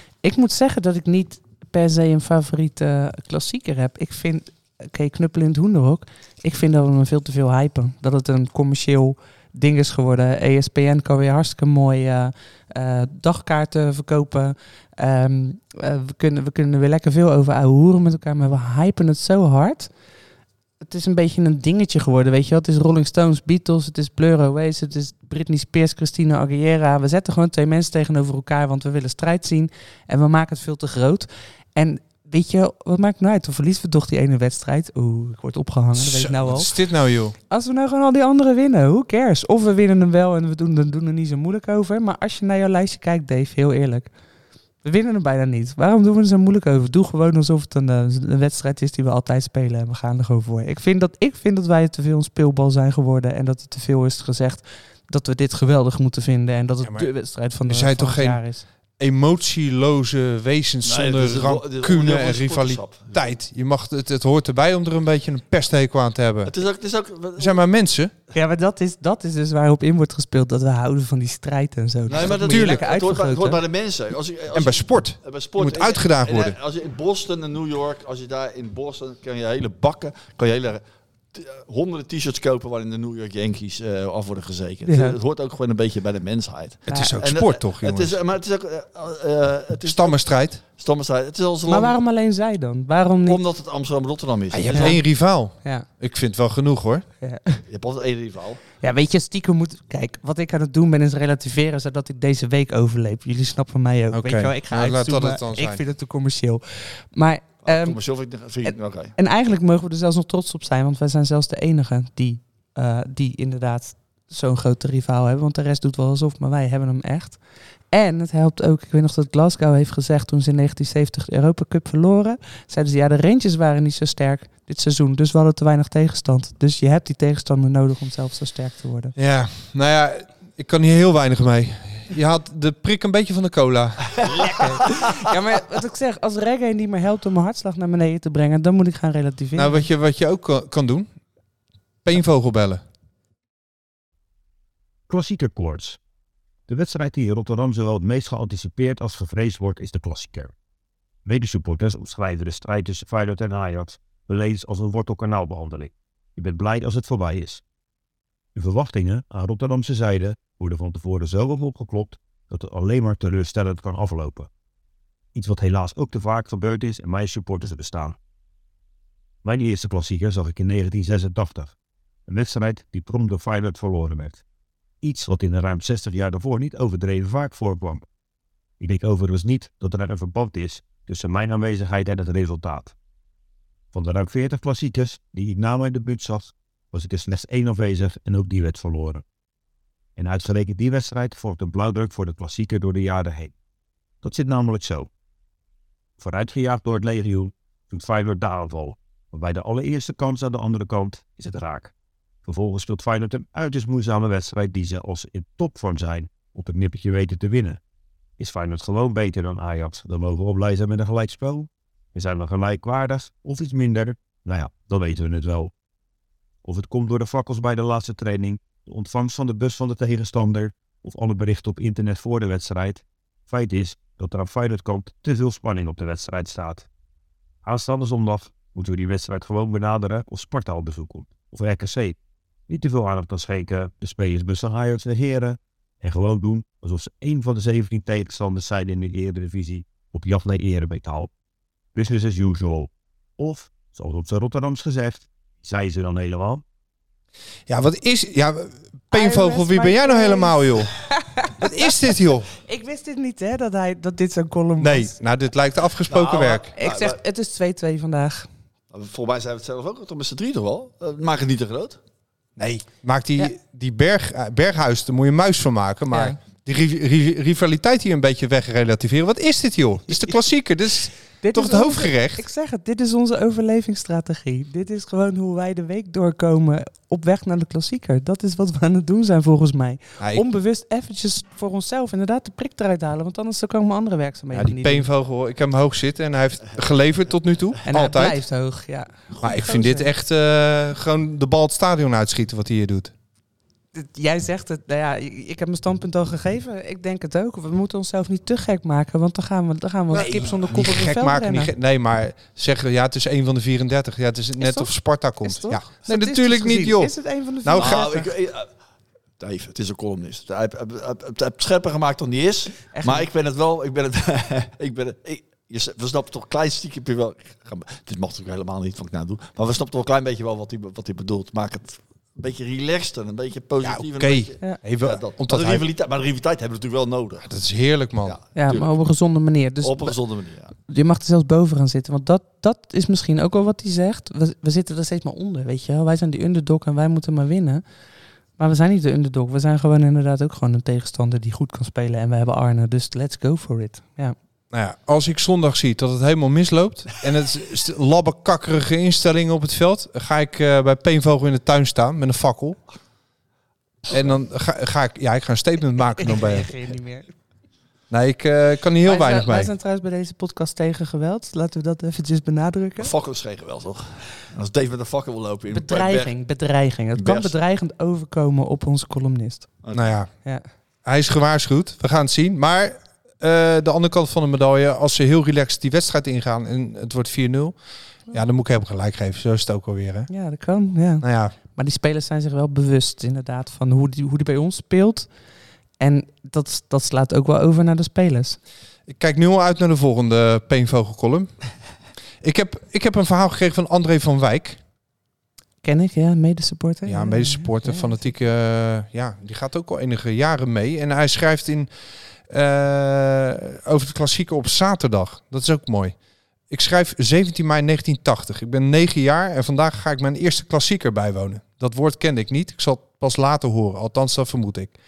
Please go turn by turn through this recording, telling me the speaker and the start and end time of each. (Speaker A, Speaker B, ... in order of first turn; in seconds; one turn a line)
Speaker A: 0.2-19.9
Speaker A: 20.8-36.7
Speaker B: 36.0-37.4
Speaker A: 37.5-44.1
Speaker A: 44.8-58.6
Speaker B: 56.8-57.1
Speaker B: 57.7-58.4
Speaker B: 59.0-66.5
Speaker C: 60.9-63.3
Speaker C: 66.5-67.6
Speaker B: 67.4-68.1
Speaker A: 68.3-73.6
Speaker C: 72.1-80.8
Speaker B: 72.2-72.8
Speaker B: 74.5-76.6
Speaker C: 81.3-92.0
Speaker A: 84.9-85.2
Speaker B: 86.9-88.2
Speaker A: 86.9-87.2
Speaker B: 89.8-90.6
Speaker A: 91.7-93.4
Speaker C: 93.3-95.0
Speaker B: 94.5-97.1
Speaker A: 94.7-95.0
Speaker A: 95.6-95.9
Speaker A: 97.2-97.6
Speaker C: 97.7-98.6
Speaker A: 98.8-108.0
Speaker B: 104.1-105.8
Speaker C: 107.6-109.2
Speaker A: 108.6-117.4
Speaker A: 117.9-129.1
Speaker B: 129.2-134.8
Speaker A: 134.3-139.9
Speaker B: 139.6-141.1
Speaker B: 142.1-142.8
Speaker D: 145.1-146.0
Speaker D: 146.7-150.5
Speaker D: 151.2-157.6
Speaker D: 158.6-164.5
Speaker D: 165.3-168.2
Speaker D: 169.4-171.7
Speaker D: 172.3-174.4
Speaker D: 175.0-178.1
Speaker D: 178.8-182.9
Speaker D: 183.9-189.2
Speaker D: 190.2-193.5
Speaker D: 194.2-195.1
Speaker D: 196.2-201.9
Speaker D: 202.4-207.8
Speaker D: 208.4-215.7
Speaker D: 216.6-226.9
Speaker D: 227.6-232.2
Speaker D: 232.7-241.3
Speaker D: 241.9-246.6
Speaker B: 247.7-250.9
Speaker A: 249.1-251.7
Speaker B: 251.6-252.5
Speaker A: 252.7-255.2
Speaker B: 254.8-256.7
Speaker C: 256.1-257.2
Speaker A: 256.8-258.5
Speaker C: 258.9-262.0
Speaker B: 262.6-272.4
Speaker A: 271.4-285.1
Speaker B: 280.2-280.4
Speaker B: 284.5-288.4
Speaker A: 287.9-290.1
Speaker B: 289.4-293.1
Speaker A: 293.9-301.7
Speaker B: 300.1-308.1
Speaker C: 300.1-300.8
Speaker A: 304.6-308.3
Speaker C: 307.8-308.7
Speaker C: 309.4-327.5
Speaker A: 312.9-313.3
Speaker B: 323.8-325.9
Speaker B: 327.4-328.4
Speaker C: 328.2-328.9
Speaker A: 328.6-330.2
Speaker C: 329.8-330.7
Speaker A: 330.9-337.8
Speaker A: 338.6-344.4
Speaker B: 344.7-352.8
Speaker B: 354.1-356.7
Speaker A: 356.2-357.3
Speaker B: 358.1-359.7
Speaker A: 359.0-363.1
Speaker C: 363.0-366.3
Speaker A: 365.7-369.7
Speaker C: 367.1-367.5
Speaker C: 369.8-370.1
Speaker B: 369.9-370.3
Speaker B: 371.1-377.8
Speaker B: 378.3-380.3
Speaker A: 380.3-385.3
Speaker B: 381.2-381.5
Speaker A: 386.0-388.6
Speaker B: 389.1-391.5
Speaker B: 392.4-394.8
Speaker A: 395.8-398.2
Speaker B: 397.1-401.9
Speaker B: 402.5-406.1
Speaker B: 406.7-414.9